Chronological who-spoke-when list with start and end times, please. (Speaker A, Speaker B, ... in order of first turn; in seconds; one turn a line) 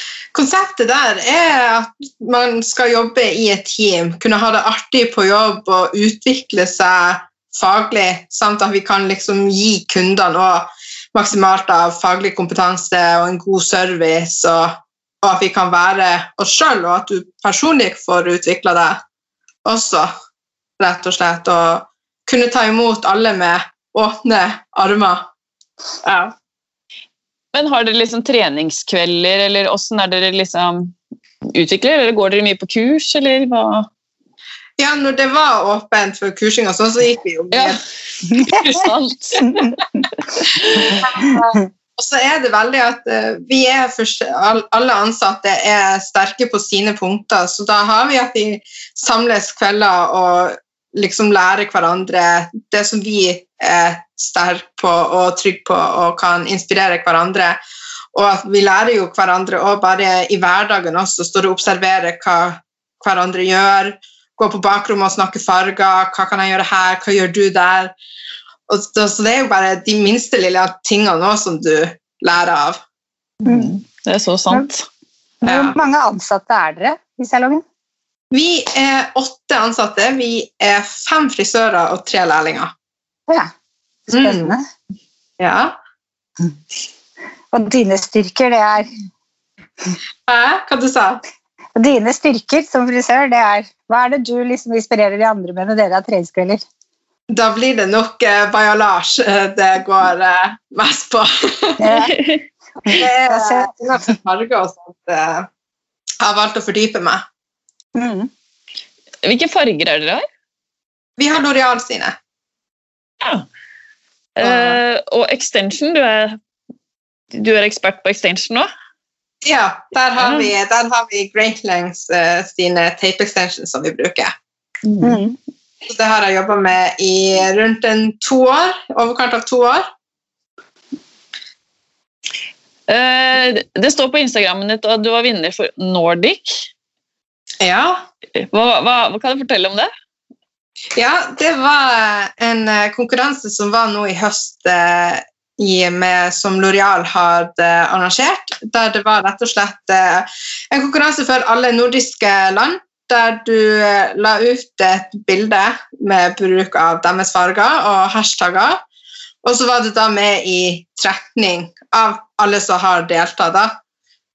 Speaker A: 0.3-19.0
Speaker A: 19.6-20.1
Speaker A: 20.8-25.3
Speaker A: 26.0-26.3
Speaker B: 27.5-31.0
Speaker B: 31.5-33.9
Speaker A: 34.8-37.8
Speaker B: 37.5-41.0
Speaker C: 39.4-39.8
Speaker A: 40.8-57.6
Speaker A: 58.1-67.9
Speaker A: 68.7-72.8
Speaker C: 73.5-73.7
Speaker B: 73.5-74.9
Speaker C: 75.4-77.6
Speaker A: 75.5-75.8
Speaker A: 78.3-82.7
Speaker A: 84.1-84.5
Speaker C: 84.1-84.6
Speaker A: 85.4-85.8
Speaker C: 87.5-88.9
Speaker A: 90.3-91.2
Speaker C: 91.8-96.6
Speaker A: 97.3-101.9
Speaker C: 101.8-102.2
Speaker B: 101.9-102.4
Speaker C: 102.8-103.7
Speaker A: 102.9-105.5
Speaker A: 106.2-107.2
Speaker C: 108.0-108.3
Speaker B: 109.2-110.2
Speaker A: 111.2-112.2
Speaker B: 114.4-116.4
Speaker A: 114.4-114.8
Speaker B: 117.3-118.7
Speaker A: 119.4-124.3
Speaker B: 120.2-120.5
Speaker B: 124.9-125.2
Speaker C: 125.0-125.4
Speaker A: 125.9-129.9
Speaker B: 132.9-136.7
Speaker A: 137.6-138.1
Speaker B: 138.4-139.9
Speaker A: 141.0-158.8
Speaker A: 159.4-163.8